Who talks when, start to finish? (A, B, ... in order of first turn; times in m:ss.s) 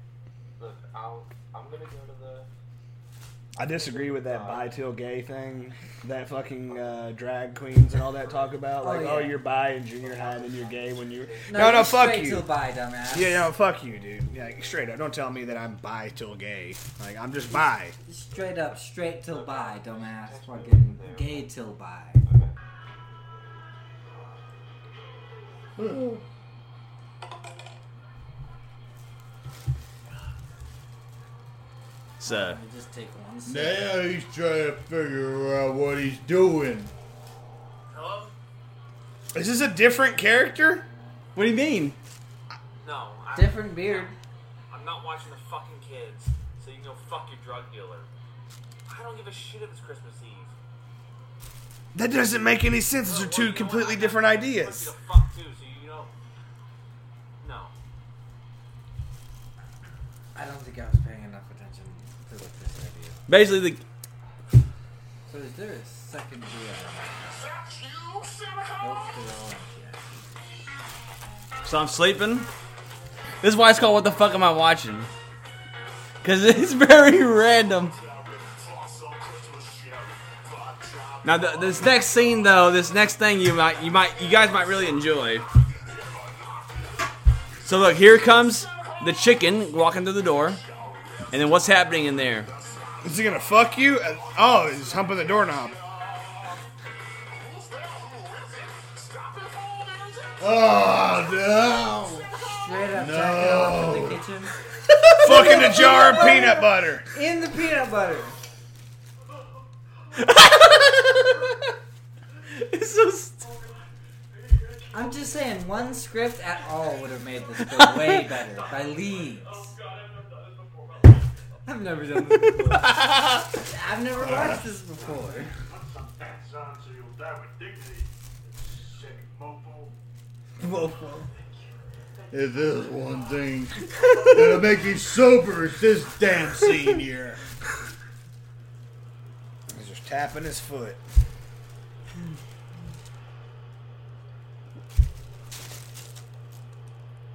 0:00.6-0:02.4 A
0:03.6-0:12.5 B
0:03.8-0:04.6 A
0:08.8-0:09.4 C
0:10.0-0:11.4 A
0:11.5-0:13.5 C
0:13.1-0:18.0 B
0:18.0-0:22.2 C
0:19.5-0:19.7 A
0:20.6-0:21.4 A
0:25.8-0:26.2 D
0:32.2-0:32.6 E
0:32.2-0:33.9 C
0:33.4-0:36.9 D
0:37.9-0:38.3 A
0:39.3-0:40.8 B
0:41.4-0:42.0 E
0:42.8-0:44.1 A
0:43.3-0:44.1 C
0:44.7-0:48.1 A
0:48.8-0:50.5 A
0:51.9-0:54.9 B
0:53.0-0:56.1 A
0:57.4-0:57.7 A
1:00.3-1:03.2 C
1:03.3-1:03.8 E
1:05.3-1:07.4 C
1:08.8-1:10.1 C
1:11.6-1:12.5 E
1:13.4-1:15.1 E
1:16.2-1:17.9 E
1:18.0-1:22.1 F
1:21.2-1:25.4 E
1:25.9-1:26.7 F
1:27.6-1:30.6 E
1:31.3-1:32.5 E
1:33.0-1:35.8 B
1:35.9-1:36.3 F
1:40.4-1:42.3 D
1:42.4-1:44.5 C
1:42.9-1:44.2 D
1:44.9-1:45.7 E
1:45.2-1:47.0 B
1:45.2-1:48.4 C
1:50.1-1:50.4 F
1:50.2-1:51.4 E
1:52.6-1:53.5 E
1:53.4-1:55.3 F
1:54.9-1:59.7 C
1:57.8-1:58.1 E
1:59.5-2:01.4 F
2:01.6-2:03.0 C
2:02.8-2:03.4 E
2:03.6-2:05.5 C
2:04.2-2:04.6 D
2:05.7-2:10.0 F
2:10.6-2:11.3 C
2:12.3-2:17.4 D
2:13.9-2:14.6 E
2:19.7-2:21.0 B